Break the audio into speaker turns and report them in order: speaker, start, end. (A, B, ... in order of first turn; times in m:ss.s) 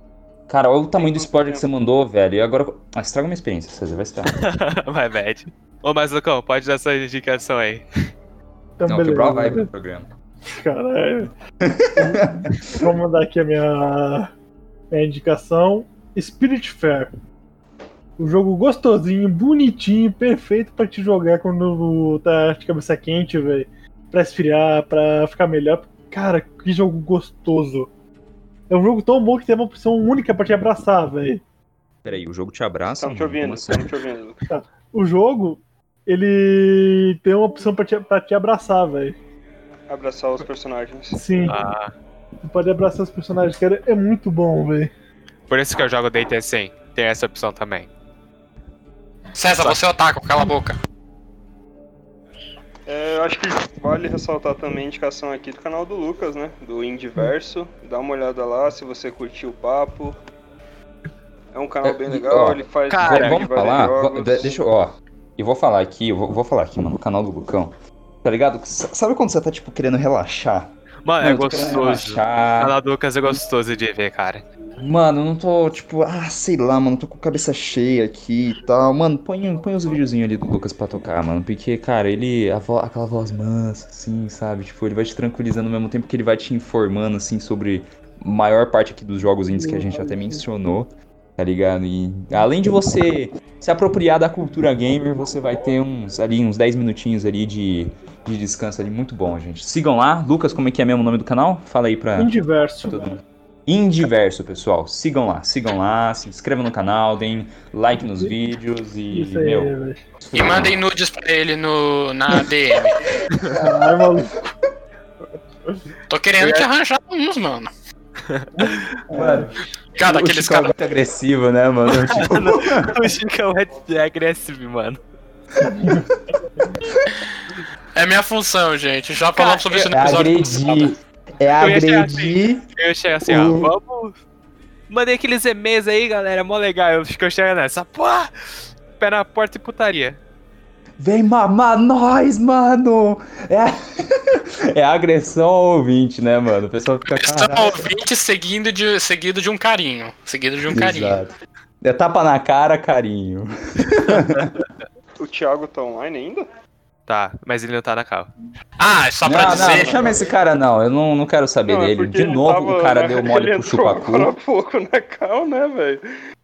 0:00.5-0:04.4 A
0:01.0-0:01.6 B
0:04.3-0:07.8 C
0:08.8-0:09.7 D
0:08.8-0:10.1 A
0:10.5-0:11.3 D
0:11.6-0:12.4 A
0:11.9-0:14.3 D
0:14.9-0:17.1 D
0:18.2-0:27.9 D
0:28.7-0:31.4 D
0:32.0-0:33.8 A
0:32.9-0:34.4 B
0:34.5-0:39.2 D
0:39.9-0:41.2 B
0:41.1-0:41.6 D
0:41.5-0:41.9 C
0:42.4-0:44.9 D
0:45.5-0:47.9 C
0:49.3-0:50.8 E
0:52.9-1:00.2 B
1:01.5-1:04.6 B
1:01.8-1:12.8 A
1:02.9-1:03.4 C
1:11.0-1:14.4 C
1:14.8-1:50.8 A
1:29.6-1:30.4 D
1:42.2-1:43.1 D
1:49.1-1:50.0 D
1:50.3-1:53.0 E
1:53.5-1:54.5 D
1:56.1-1:57.7 E
1:58.6-1:59.5 D
1:59.1-2:02.9 A
2:00.0-2:00.7 E
2:01.9-2:05.0 C
2:05.6-2:06.0 D
2:07.9-2:10.9 E
2:09.4-2:09.9 C
2:09.9-2:12.6 A
2:11.6-2:14.2 C
2:13.2-2:13.7 A
2:14.9-2:18.3 C
2:19.0-2:20.2 C
2:21.0-2:27.9 A
2:27.1-2:31.2 E
2:30.7-2:34.5 A
2:35.2-2:36.5 B
2:37.1-2:38.3 C
2:38.8-2:40.0 E
2:39.2-2:44.3 A
2:39.5-2:40.2 B
2:41.7-2:46.0 B